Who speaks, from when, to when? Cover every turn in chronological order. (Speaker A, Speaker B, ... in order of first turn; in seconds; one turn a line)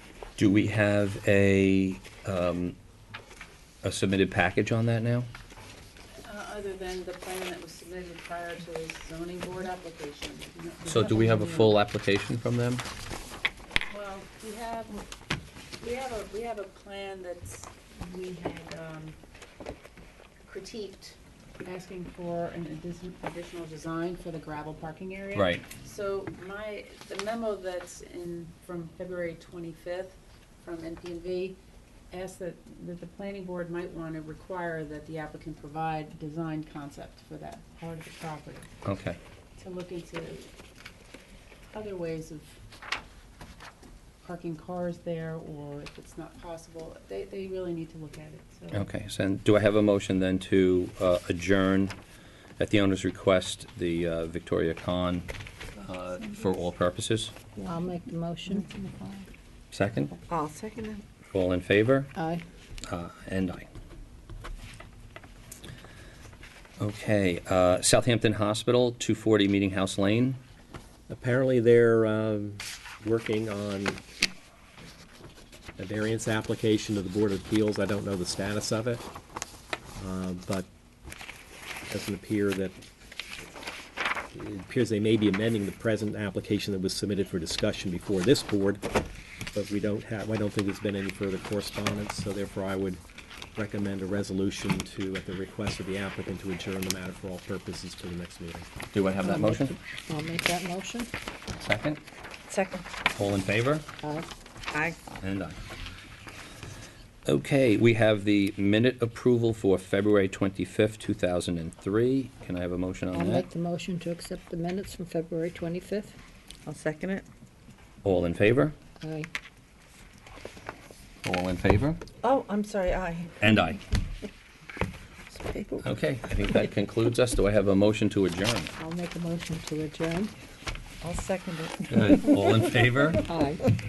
Speaker A: 0.4-2.8
Speaker A: 3.8-5.3
Speaker B: 6.2-11.8
Speaker A: 10.9-12.8
Speaker B: 13.9-15.0
Speaker B: 15.8-19.1
Speaker B: 20.4-31.6
Speaker A: 25.3-25.6
Speaker B: 32.1-38.7
Speaker A: 38.8-39.2
Speaker B: 39.6-40.5
Speaker B: 41.7-42.6
Speaker B: 44.2-48.9
Speaker A: 48.7-52.0
Speaker A: 52.6-57.3
Speaker C: 57.6-58.7
Speaker B: 58.5-59.2
Speaker A: 59.7-60.1
Speaker D: 60.3-61.0
Speaker A: 61.3-62.1
Speaker C: 62.1-62.4
Speaker A: 62.9-63.7
Speaker A: 66.8-70.4
Speaker E: 71.1-74.0
Speaker E: 75.8-79.0
Speaker E: 80.0-80.7
Speaker E: 81.9-82.8
Speaker E: 84.3-88.9
Speaker E: 89.5-93.0
Speaker E: 93.5-98.7
Speaker A: 98.9-99.8
Speaker C: 99.2-101.1
Speaker A: 101.6-102.0
Speaker D: 102.5-102.8
Speaker A: 103.1-103.8
Speaker A: 105.2-105.6
Speaker A: 107.2-113.4
Speaker C: 113.1-116.2
Speaker D: 116.7-117.2
Speaker A: 118.0-118.7
Speaker C: 119.0-119.3
Speaker A: 121.2-122.0
Speaker D: 122.2-123.3
Speaker A: 123.4-123.8
Speaker D: 125.3-125.8
Speaker A: 125.8-128.7
Speaker C: 128.8-130.3
Speaker D: 131.0-132.6
Speaker A: 131.9-133.2
Speaker C: 133.3-133.6